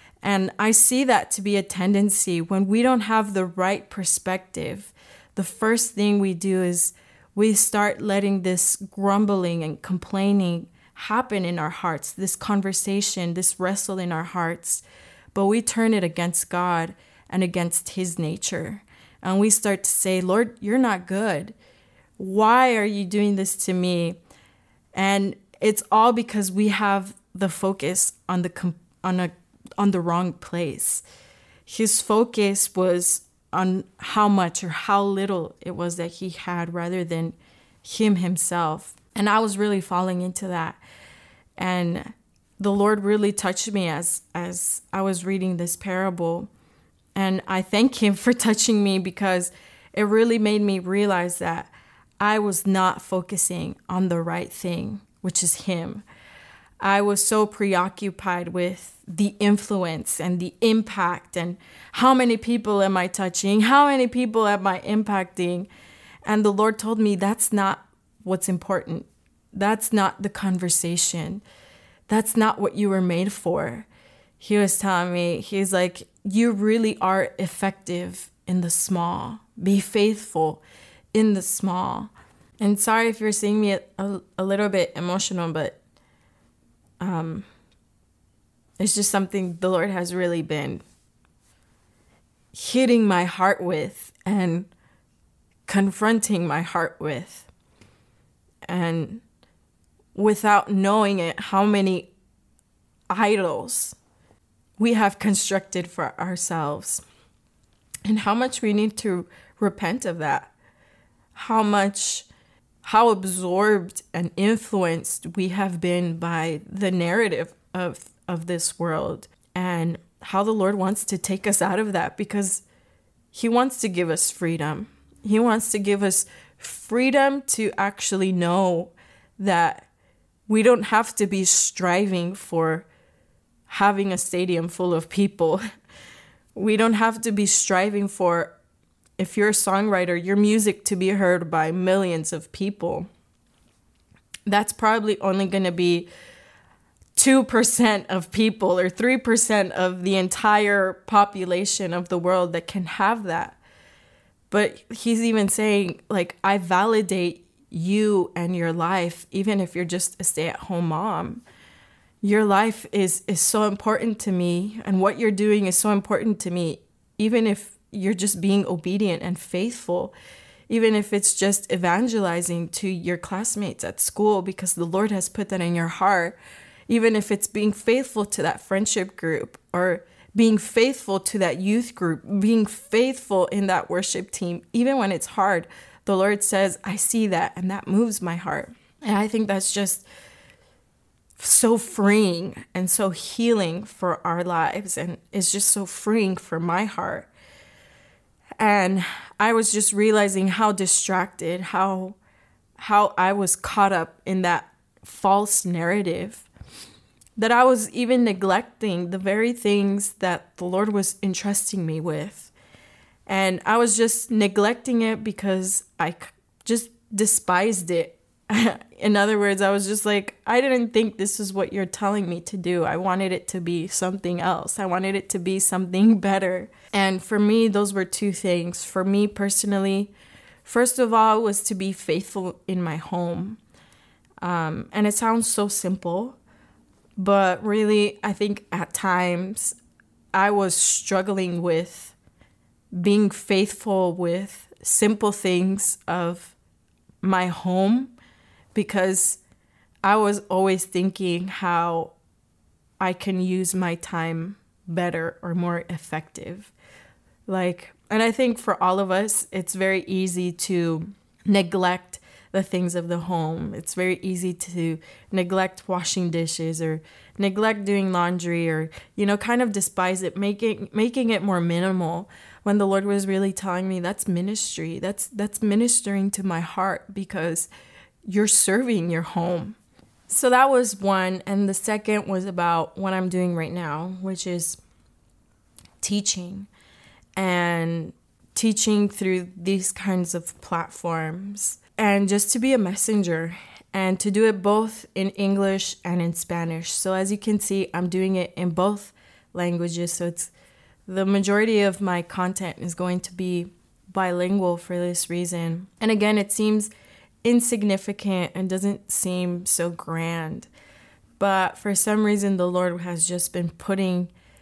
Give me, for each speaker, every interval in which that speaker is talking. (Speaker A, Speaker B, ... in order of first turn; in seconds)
Speaker A: 0.2-21.6, 22.2-24.2, 24.9-31.0, 31.7-40.8, 41.6-46.5, 47.1-56.0, 56.8-65.7, 66.2-71.4, 72.1-73.9, 74.4-80.6, 81.1-85.8, 87.0-87.5, 88.8-90.8, 92.5-94.7, 95.7-97.5, 98.7-99.2, 100.2-102.1, 103.1-104.0, 104.8-107.0, 108.0-110.5, 111.3-112.3, 112.8-122.7, 123.3-129.9, 130.5-132.9, 133.7-135.6, 136.6-138.6, 139.2-143.1, 144.5-146.1, 147.2-153.6, 154.5-161.4, 162.2-170.1, 170.7-176.4, 176.9-190.1, 191.4-197.3, 198.6-202.2, 202.8-206.5, 207.4-212.5, 213.3-230.1, 230.7-233.6, 234.4-236.4, 237.2-239.8, 240.3-242.2, 242.9-246.6, 247.2-248.1, 248.8-249.4, 250.0-252.1, 253.0-256.7, 257.5-277.7, 278.3-279.8, 280.3-284.8, 286.0-286.7, 287.4-300.5, 301.1-306.9, 307.4-310.7, 311.4-314.3